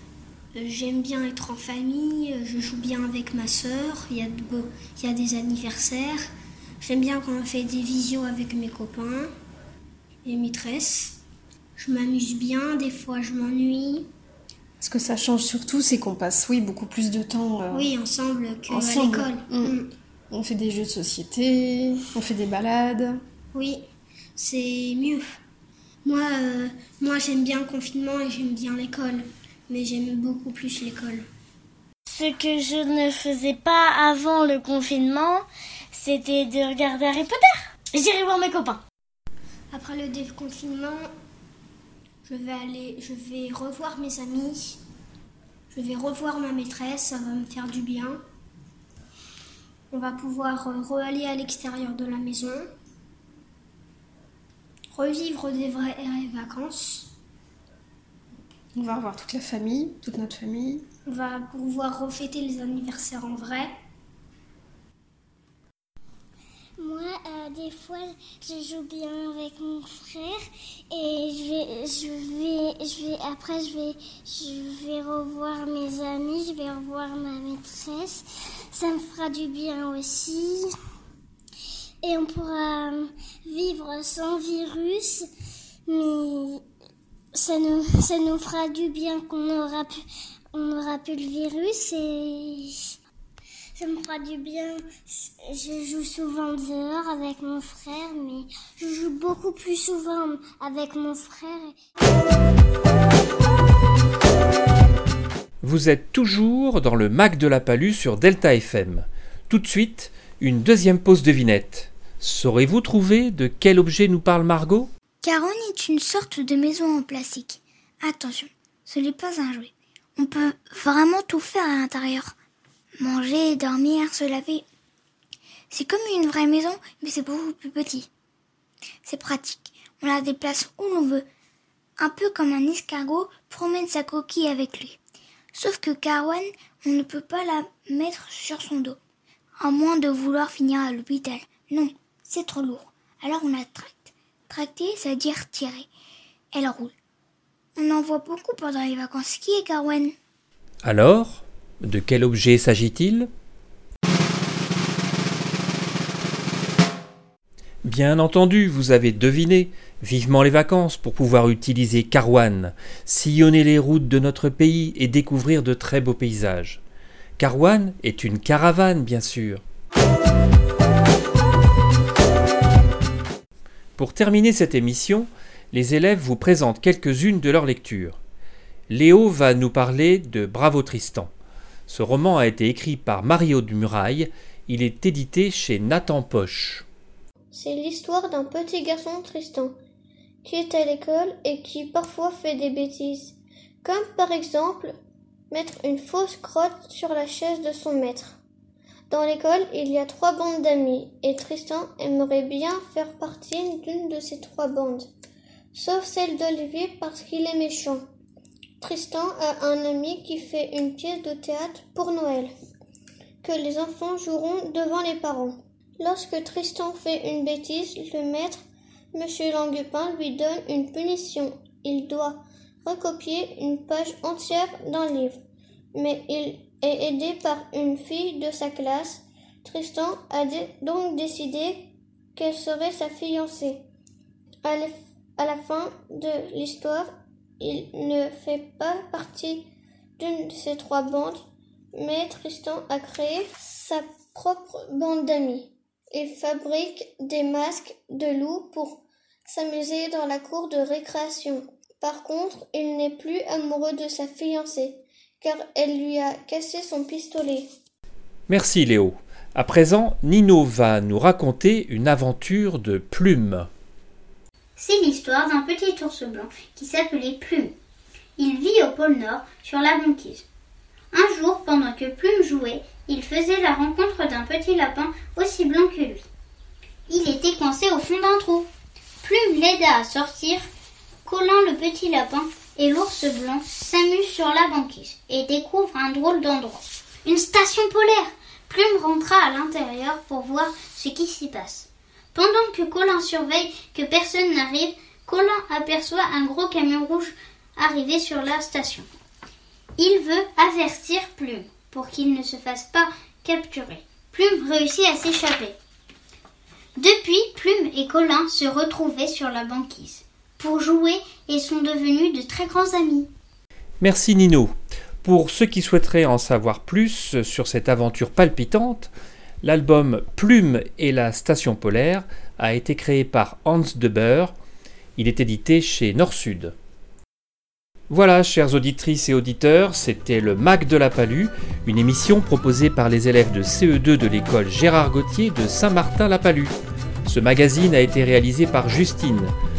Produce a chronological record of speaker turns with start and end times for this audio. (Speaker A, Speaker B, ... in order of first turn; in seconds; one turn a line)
Speaker A: 0.5-6.2
Speaker A: 6.8-9.3
Speaker A: 10.2-11.2
Speaker A: 11.8-14.1
Speaker B: 14.8-17.9
Speaker A: 17.7-19.9
Speaker B: 18.7-19.8
Speaker B: 20.3-23.2
Speaker A: 23.5-23.8
Speaker A: 24.4-25.4
Speaker A: 26.0-31.2
Speaker C: 32.0-38.8
Speaker A: 39.7-41.0
Speaker A: 42.2-44.8
Speaker A: 45.7-48.2
Speaker A: 49.9-52.7
Speaker A: 54.9-57.1
Speaker B: 58.7-60.8
Speaker A: 61.0-63.7
Speaker D: 66.8-80.6
Speaker D: 82.0-85.3
Speaker D: 85.9-86.6
Speaker D: 87.3-90.0
Speaker D: 90.5-92.7
Speaker D: 93.7-101.7
Speaker E: 105.6-114.9
Speaker F: 115.2-122.3
Speaker F: 123.0-124.6
Speaker F: 125.7-128.1
Speaker F: 129.0-131.2
Speaker F: 132.0-134.9
Speaker F: 135.5-138.9
Speaker F: 139.6-143.9
Speaker F: 144.5-145.8
Speaker F: 146.5-146.9
Speaker F: 147.8-150.1
Speaker E: 150.8-153.3
Speaker E: 157.8-166.8
Speaker E: 167.4-169.6
Speaker E: 174.0-178.2
Speaker E: 178.9-181.3
Speaker E: 181.9-186.8
Speaker G: 187.5-189.7
Speaker G: 190.4-194.9
Speaker G: 195.5-198.4
Speaker G: 199.1-205.1
Speaker G: 205.7-208.0
Speaker G: 208.8-212.5
Speaker G: 213.4-218.6
Speaker G: 219.1-225.4
Speaker G: 225.9-233.8
Speaker G: 234.6-237.1
Speaker G: 237.6-241.4
Speaker G: 241.9-257.7
Speaker E: 258.5-263.7
Speaker H: 264.8-267.7
Speaker H: 268.4-270.4
Speaker H: 271.1-276.2
Speaker H: 277.1-278.7
Speaker H: 279.2-280.7
Speaker H: 281.2-299.1
Speaker H: 300.0-305.8
Speaker H: 307.0-313.3
Speaker E: 314.0-314.7
Speaker E: 315.2-319.1
Speaker E: 319.6-324.5
Speaker E: 325.2-326.7
Speaker E: 328.1-339.5